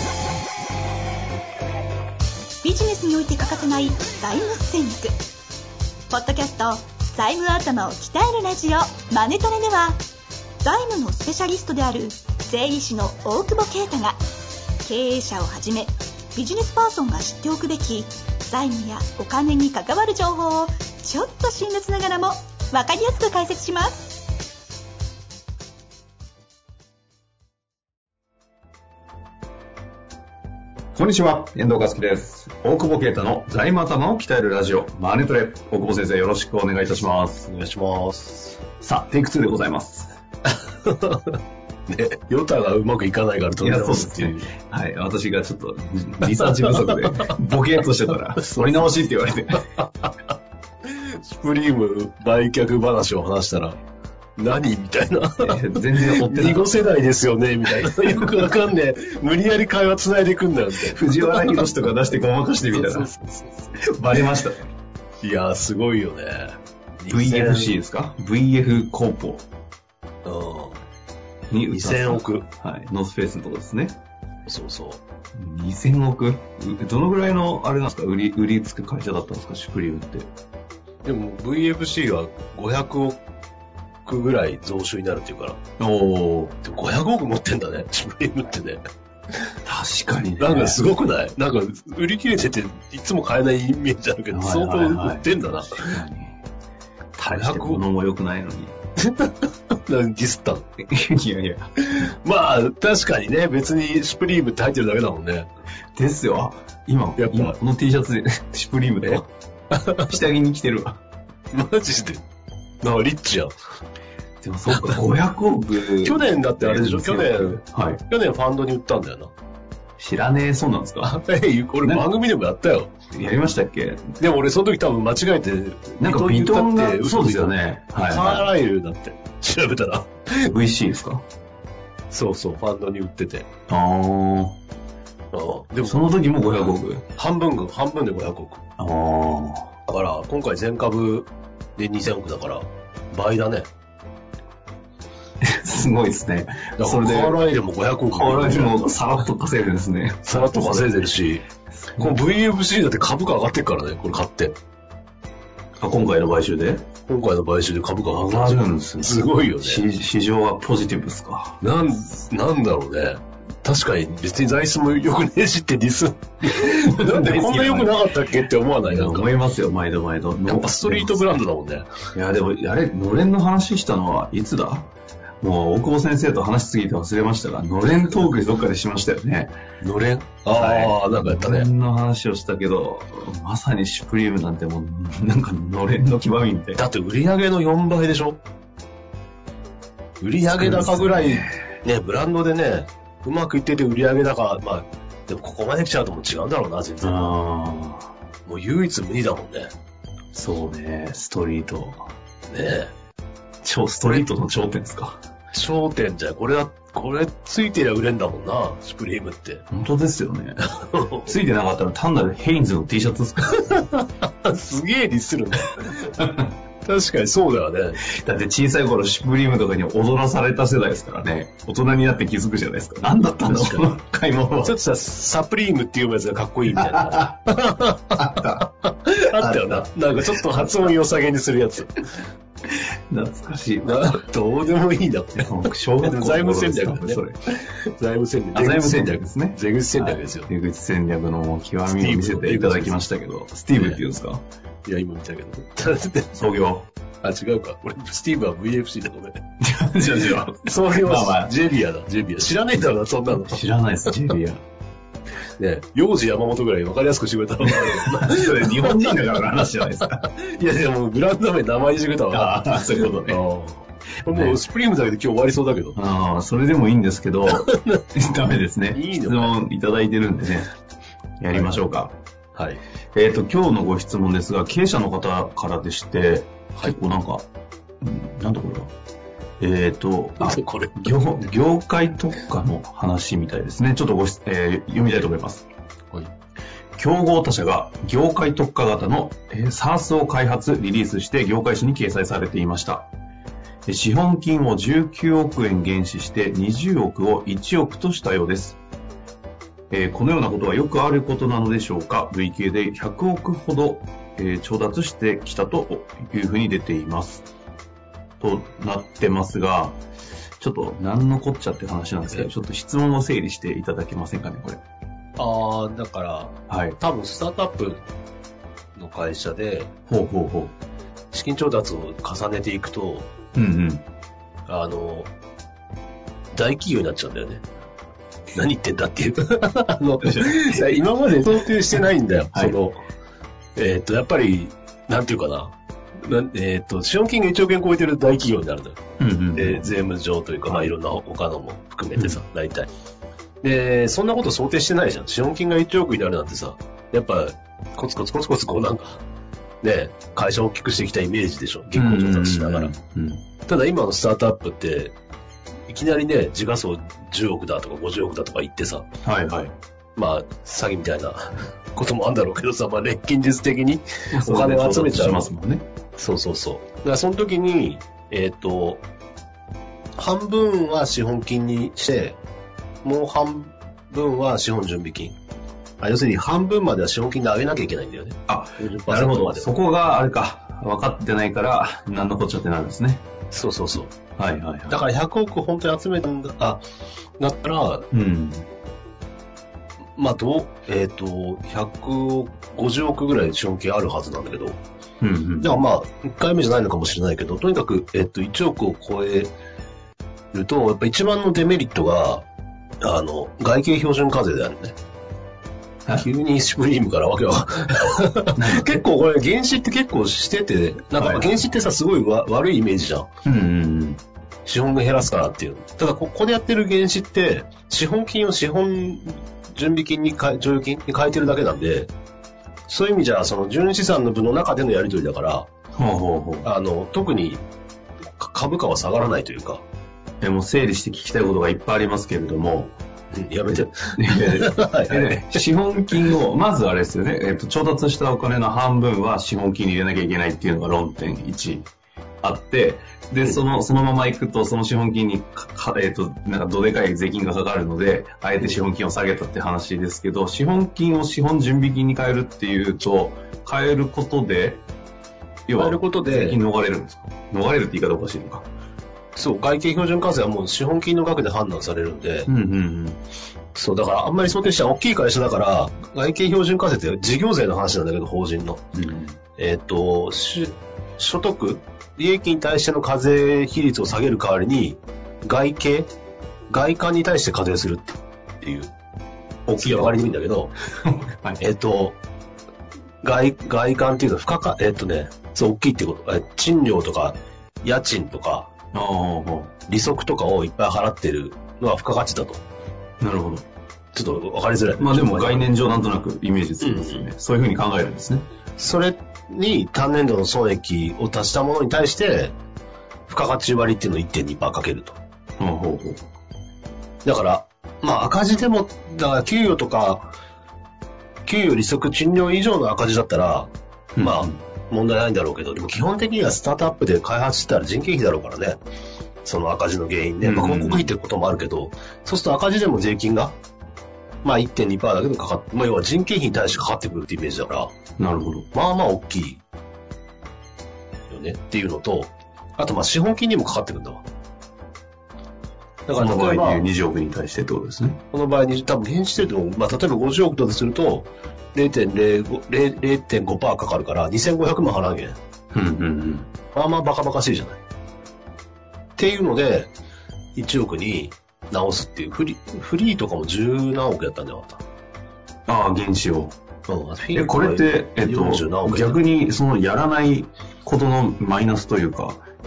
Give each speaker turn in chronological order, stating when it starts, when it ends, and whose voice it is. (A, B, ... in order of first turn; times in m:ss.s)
0:02.6-0:05.1 A
0:06.1-0:10.0 A
0:10.6-0:14.2 A
0:14.8-0:24.2 A
0:30.9-0:37.5 B
0:37.5-0:38.6 C
0:38.8-0:40.1 B
0:40.5-0:44.5 C
0:43.6-0:49.7 B
0:46.2-0:47.4 C
0:48.4-0:48.9 C
0:50.8-0:53.8 C
0:54.4-1:01.7 C
0:55.4-0:56.7 B
0:57.9-0:58.5 B
1:00.8-1:03.1 B
1:02.7-1:03.8 C
1:03.8-1:04.7 B
1:05.2-1:07.7 C
1:07.1-1:09.5 B
1:10.2-1:10.8 C
1:11.5-1:14.0 B
1:11.7-1:12.5 C
1:14.4-1:15.0 C
1:15.4-1:20.3 B
1:21.0-1:23.2 C
1:24.0-1:25.6 C
1:25.8-1:26.6 B
1:26.6-1:28.8 C
1:29.6-1:30.8 B
1:30.4-1:36.0 C
1:34.3-1:36.4 B
1:37.2-1:38.8 B
1:37.3-1:37.8 C
1:39.0-1:40.7 C
1:40.8-1:41.7 B
1:41.8-1:45.5 C
1:46.0-1:49.3 B
1:47.2-1:47.6 C
1:49.0-1:50.2 C
1:50.0-1:51.0 B
1:51.5-1:52.2 C
1:52.8-1:53.6 C
1:54.4-1:58.0 B
1:54.7-1:55.0 C
1:56.0-1:59.3 C
2:00.0-2:01.2 B
2:01.0-2:02.9 C
2:03.1-2:04.2 B
2:04.2-2:07.5 C
2:06.0-2:08.5 B
2:08.1-2:10.5 C
2:10.4-2:11.2 B
2:12.1-2:13.5 C
2:13.7-2:14.6 B
2:15.3-2:16.0 C
2:15.8-2:17.0 B
2:17.1-2:18.6 C
2:18.8-2:19.8 B
2:19.8-2:23.7 C
2:25.4-2:27.4 B
2:26.8-2:28.8 C
2:28.1-2:30.9 B
2:30.2-2:31.4 C
2:31.8-2:32.2 B
2:32.0-2:34.5 C
2:35.8-2:36.9 B
2:37.0-2:39.8 C
2:38.0-2:41.6 B
2:41.6-2:49.3 C
2:46.4-2:48.0 B
2:48.9-2:51.4 B
2:50.4-2:51.9 C
2:52.1-2:59.6 B
2:59.8-3:01.7 C
3:00.5-3:06.8 B
3:06.8-3:08.4 C
3:10.2-3:17.3 C
3:10.6-3:11.8 B
3:17.0-3:18.1 B
3:18.4-3:19.7 C
3:20.3-3:22.1 B
3:22.5-3:22.9 C
3:23.6-3:25.2 B
3:25.5-3:29.6 C
3:29.7-3:33.8 B
3:30.6-3:31.3 C
3:33.5-3:36.2 C
3:36.2-3:36.5 B
3:36.8-3:38.0 C
3:38.0-3:44.7 B
3:43.5-3:43.9 C
3:44.6-3:52.1 C
3:46.7-3:47.6 B
3:48.1-3:49.8 B
3:52.7-3:54.1 B
3:53.8-4:00.5 C
3:55.4-3:57.3 B
3:58.5-4:04.4 B
4:01.9-4:03.0 C
4:04.8-4:06.3 C
4:06.3-4:06.9 B
4:07.2-4:09.4 C
4:09.6-4:11.5 B
4:10.2-4:13.6 C
4:13.3-4:14.6 B
4:15.6-4:19.2 C
4:17.6-4:20.3 B
4:20.0-4:26.0 C
4:22.3-4:23.4 B
4:24.2-4:24.6 B
4:25.9-4:30.7 B
4:27.5-4:28.0 C
4:28.9-4:29.5 C
4:31.4-4:32.2 B
4:31.5-4:31.8 C
4:32.5-4:32.8 C
4:33.1-4:37.4 B
4:38.0-4:38.9 B
4:39.6-4:45.6 B
4:40.4-4:41.1 C
4:47.0-4:53.1 B
4:53.8-4:58.8 B
4:59.9-5:07.4 B
5:08.4-5:10.0 B
5:10.6-5:14.8 B
5:15.4-5:18.1 C
5:16.7-5:17.0 B
5:19.0-5:19.9 C
5:20.1-5:20.7 B
5:21.3-5:23.3 C
5:23.5-5:24.0 B
5:24.7-5:25.3 C
5:26.5-5:27.6 C
5:28.5-5:33.0 C
5:30.2-5:30.8 B
5:33.8-5:42.9 C
5:39.2-5:39.9 B
5:43.6-5:49.2 C
5:49.8-5:52.9 C
5:51.9-5:53.4 B
5:53.7-5:55.1 C
5:55.9-5:59.1 C
5:59.2-5:59.7 B
6:00.2-6:05.5 C
6:04.3-6:05.8 B
6:06.2-6:09.0 C
6:10.2-6:12.4 C
6:13.0-6:15.4 C
6:16.0-6:19.7 C
6:18.5-6:23.2 B
6:23.5-6:24.1 C
6:24.4-6:25.0 B
6:24.9-6:26.8 C
6:27.4-6:28.1 C
6:28.1-6:28.7 B
6:30.2-6:34.8 C
6:35.2-6:35.8 B
6:35.6-6:39.5 C
6:40.5-6:42.4 C
6:43.0-6:44.9 C
6:46.2-6:53.3 C
6:48.6-6:49.0 B
6:51.2-6:51.5 B
6:53.4-6:54.2 B
6:54.6-7:02.1 C
7:02.9-7:05.7 C
7:05.9-7:06.7 B
7:06.6-7:07.6 C
7:08.4-7:09.8 C
7:10.4-7:13.0 B
7:13.3-7:15.6 C
7:13.8-7:21.9 B
7:22.4-7:34.8 B
7:35.7-7:38.7 B
7:35.8-7:36.6 C
7:39.3-7:42.5 C
7:42.5-7:43.2 B
7:43.7-7:48.8 C
7:48.9-7:49.4 B
7:49.6-7:56.1 C
7:56.7-7:58.9 C
7:59.7-8:00.3 B
7:59.8-8:00.7 C
8:01.0-8:01.6 B
8:01.6-8:02.2 C
8:03.2-8:08.7 C
8:08.9-8:09.7 B
8:09.9-8:12.6 C
8:13.2-8:13.6 B
8:14.1-8:15.8 C
8:15.0-8:18.4 B
8:16.8-8:17.2 C
8:18.8-8:22.6 C
8:23.3-8:25.2 C
8:25.6-8:26.2 B
8:27.2-8:30.3 C
8:31.5-8:38.8 C
8:34.1-8:34.6 B
8:39.4-8:43.6 C
8:40.4-8:41.1 B
8:44.4-8:47.9 C
8:48.2-8:48.6 B
8:48.7-8:49.6 C
8:51.3-8:54.2 C
8:56.0-8:56.8 C
8:56.1-8:58.2 B
8:58.3-9:05.4 C
9:05.7-9:06.5 B
9:06.7-9:07.8 C
9:09.2-9:09.9 C
9:10.5-9:14.8 C
9:15.7-9:16.6 B
9:16.9-9:19.2 C
9:17.3-9:22.4 B